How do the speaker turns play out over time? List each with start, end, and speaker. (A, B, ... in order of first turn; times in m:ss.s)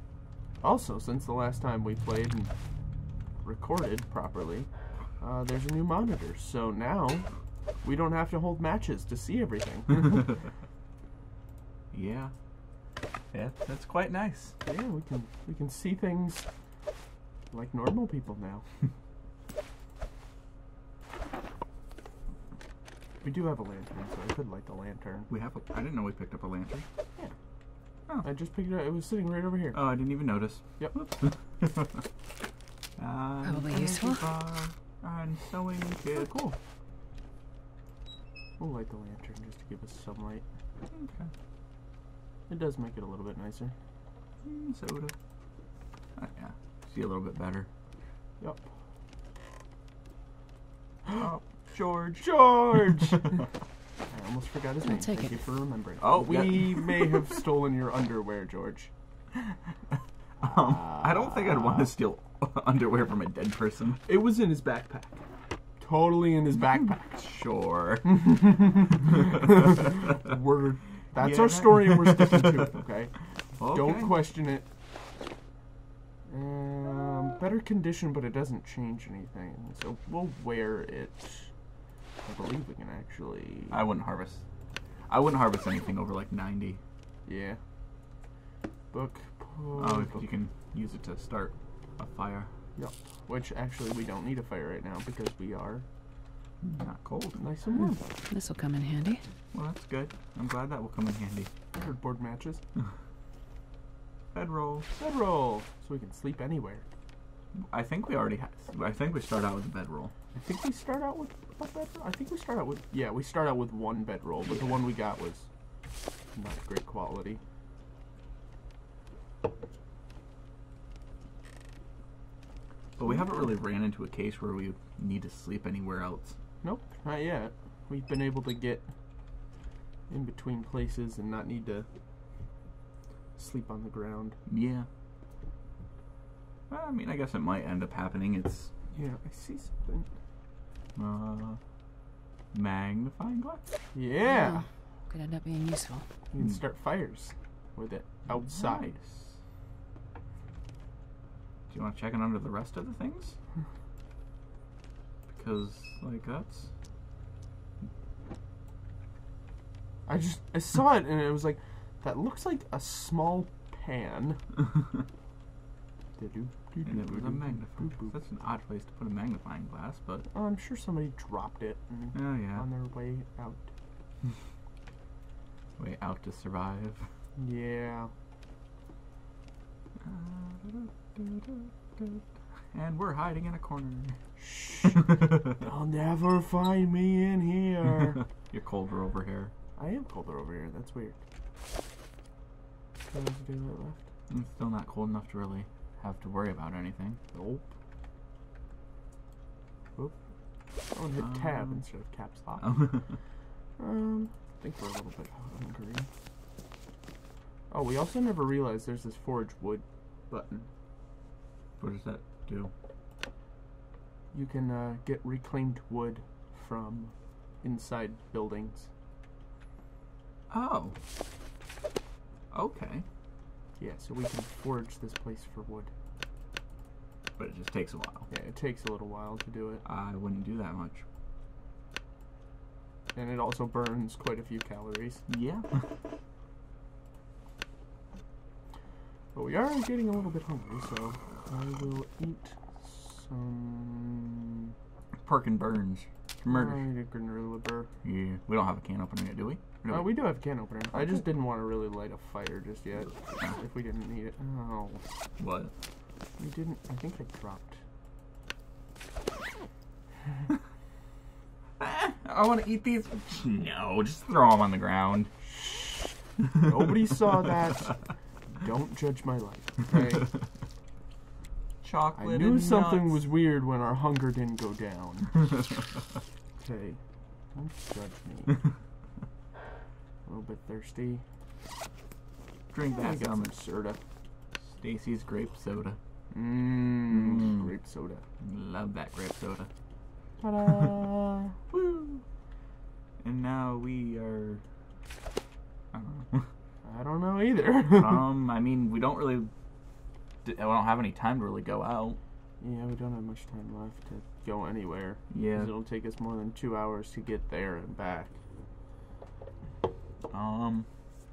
0:00.6-0:02.5 A
0:03.4-0:07.3 A
0:07.8-0:10.3 A
0:11.9-0:12.3 B
0:13.3-0:14.6 B
0:14.6-0:16.5 A
0:17.5-0:18.6 A
0:23.2-0:25.3 A
0:25.3-0:26.8 B
0:28.2-0:29.8 A
0:29.7-0:32.0 B
0:33.0-0:36.6 B
0:33.4-0:34.3 C
0:38.6-0:40.4 A
0:40.9-0:41.3 B
0:42.5-0:43.8 A
0:44.4-0:45.1 B
0:46.2-0:47.7 B
0:48.4-0:48.7 A
0:51.2-0:53.4 B
0:52.2-0:53.4 A
0:54.1-0:58.9 A
0:54.8-0:55.4 C
0:56.0-0:57.3 B
0:59.4-1:04.0 B
1:00.4-1:01.9 A
1:04.0-1:05.2 A
1:05.8-1:07.2 A
1:07.2-1:09.8 B
1:08.0-1:14.6 A
1:11.2-1:12.6 B
1:13.6-1:14.1 B
1:16.3-1:21.5 A
1:22.3-1:23.8 A
1:23.7-1:24.4 B
1:25.1-1:26.8 B
1:27.3-1:27.6 A
1:28.9-1:30.2 A
1:29.8-1:32.5 B
1:32.8-1:35.8 A
1:36.6-1:37.4 B
1:37.4-1:38.0 A
1:38.3-1:39.2 C
1:39.5-1:41.5 B
1:41.8-1:42.6 A
1:44.3-1:44.9 B
1:45.0-1:46.8 A
1:47.6-1:50.1 B
1:50.4-1:55.5 A
1:56.4-1:57.4 A
2:03.0-2:06.4 B
2:06.6-2:08.9 A
2:10.1-2:11.9 A
2:13.4-2:14.4 A
2:14.5-2:14.9 B
2:16.7-2:18.7 B
2:18.9-2:20.1 A
2:21.0-2:21.6 B
2:22.5-2:23.6 B
2:23.9-2:24.6 A
2:24.2-2:26.1 C
2:26.3-2:28.9 A
2:28.4-2:29.3 B
2:31.7-2:33.4 B
2:35.3-2:36.7 B
2:40.1-2:44.4 A
2:46.2-2:48.2 A
2:46.8-2:50.3 B
2:50.3-2:53.7 A
2:52.1-2:52.6 B
2:55.8-2:57.1 B
2:57.4-2:58.1 A
3:00.0-3:02.2 B
3:02.7-3:04.2 B
3:04.4-3:08.2 A
3:05.0-3:05.6 B
3:08.2-3:09.5 B
3:09.8-3:11.2 A
3:13.1-3:14.0 A
3:14.3-3:17.2 B
3:17.3-3:17.7 A
3:20.9-3:22.9 A
3:21.2-3:21.8 B
3:22.6-3:23.1 B
3:23.8-3:26.1 A
3:27.7-3:30.7 A
3:31.8-3:32.7 B
3:34.3-3:38.9 A
3:40.5-3:41.0 B
3:42.5-3:43.0 B
3:43.8-3:45.9 A
3:47.4-3:48.3 B
3:48.3-3:49.8 A
3:49.8-3:51.0 B
3:53.2-3:55.3 A
3:55.3-3:55.7 B
3:59.3-4:04.7 A
4:05.2-4:06.8 B
4:06.5-4:07.9 A
4:08.0-4:10.2 B
4:09.9-4:15.0 A
4:15.4-4:15.7 B
4:16.4-4:17.8 A
4:21.8-4:25.3 B
4:25.4-4:28.0 A
4:28.6-4:30.3 A
4:31.8-4:33.2 B
4:32.2-4:35.4 A
4:36.6-4:37.0 A
4:37.5-4:38.6 A
4:40.2-4:41.2 A
4:42.7-4:43.5 B
4:42.9-4:44.0 A
4:44.6-4:46.0 B
4:46.3-4:48.2 A
4:47.1-4:47.6 B
4:48.4-4:49.7 B
4:50.4-4:51.6 A
4:51.7-4:52.2 B
4:53.2-4:54.6 B
4:55.9-4:56.5 B
4:56.8-4:58.3 A
4:57.9-4:59.5 B
5:00.4-5:02.2 B
5:02.6-5:08.4 A
5:05.3-5:05.7 B
5:10.3-5:10.9 B